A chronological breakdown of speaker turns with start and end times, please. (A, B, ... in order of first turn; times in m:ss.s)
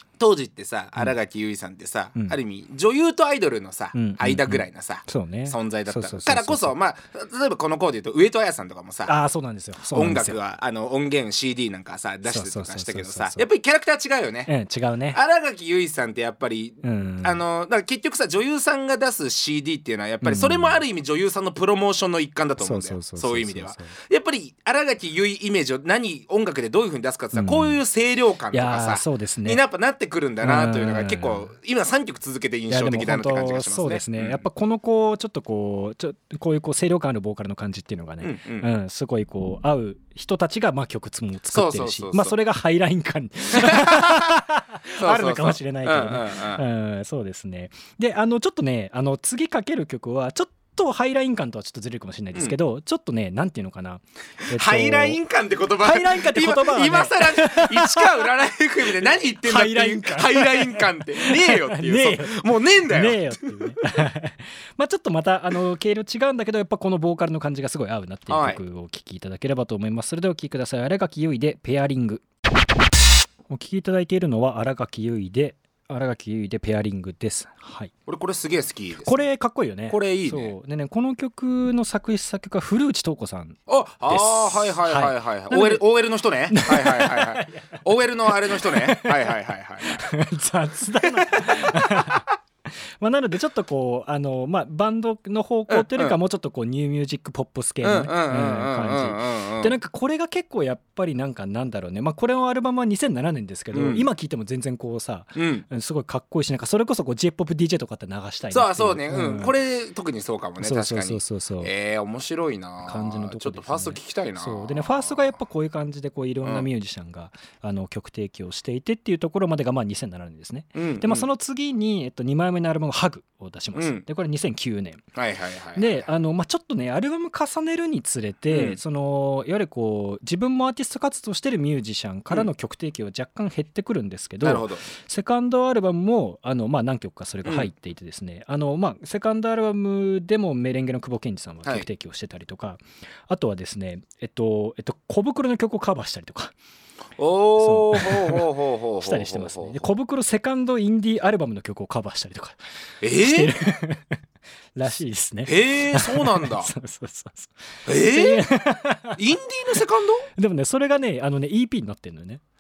0:00.2-0:09.2 A
0:03.9-0:06.8 B
0:09.1-0:10.4 B
0:09.9-0:14.5 A
0:12.2-0:13.5 B
0:14.5-0:15.2 B
0:15.1-0:34.4 A
0:16.8-0:17.4 B
0:20.2-0:20.8 B
0:22.6-0:24.0 B
0:27.3-0:27.8 B
0:28.5-0:29.6 B
0:30.4-0:31.5 B
0:32.7-0:55.2 B
0:38.2-0:38.7 A
0:41.5-0:42.4 A
0:43.6-0:44.3 A
0:45.0-0:46.6 A
0:54.5-1:03.8 A
0:55.8-0:58.2 B
0:59.0-1:12.2 B
1:08.3-1:08.6 A
1:13.5-1:17.9 B
1:18.1-1:19.3 A
1:19.0-1:25.8 B
1:19.9-1:20.5 A
1:23.7-1:30.0 A
1:26.5-1:32.2 B
1:31.0-1:32.3 A
1:33.0-1:49.5 B
1:35.7-1:36.2 A
1:37.8-1:39.8 A
1:43.7-1:44.1 A
1:45.4-1:45.7 A
1:48.5-1:55.3 A
1:50.6-1:51.7 B
1:52.8-2:05.0 B
1:56.4-1:56.7 A
2:00.8-2:01.3 A
2:03.8-2:04.0 A
2:05.2-2:06.1 A
2:05.8-2:26.5 B
2:08.5-2:08.8 A
2:14.4-2:14.8 A
2:17.4-2:17.7 A
2:27.2-2:29.8 A
2:27.6-2:28.5 B
2:29.0-2:32.6 B
2:33.0-2:33.5 A
2:33.2-2:34.2 B
2:34.8-2:39.2 B
2:35.4-2:36.7 A
2:37.9-2:38.5 A
2:39.2-2:40.3 A
2:40.4-2:42.4 B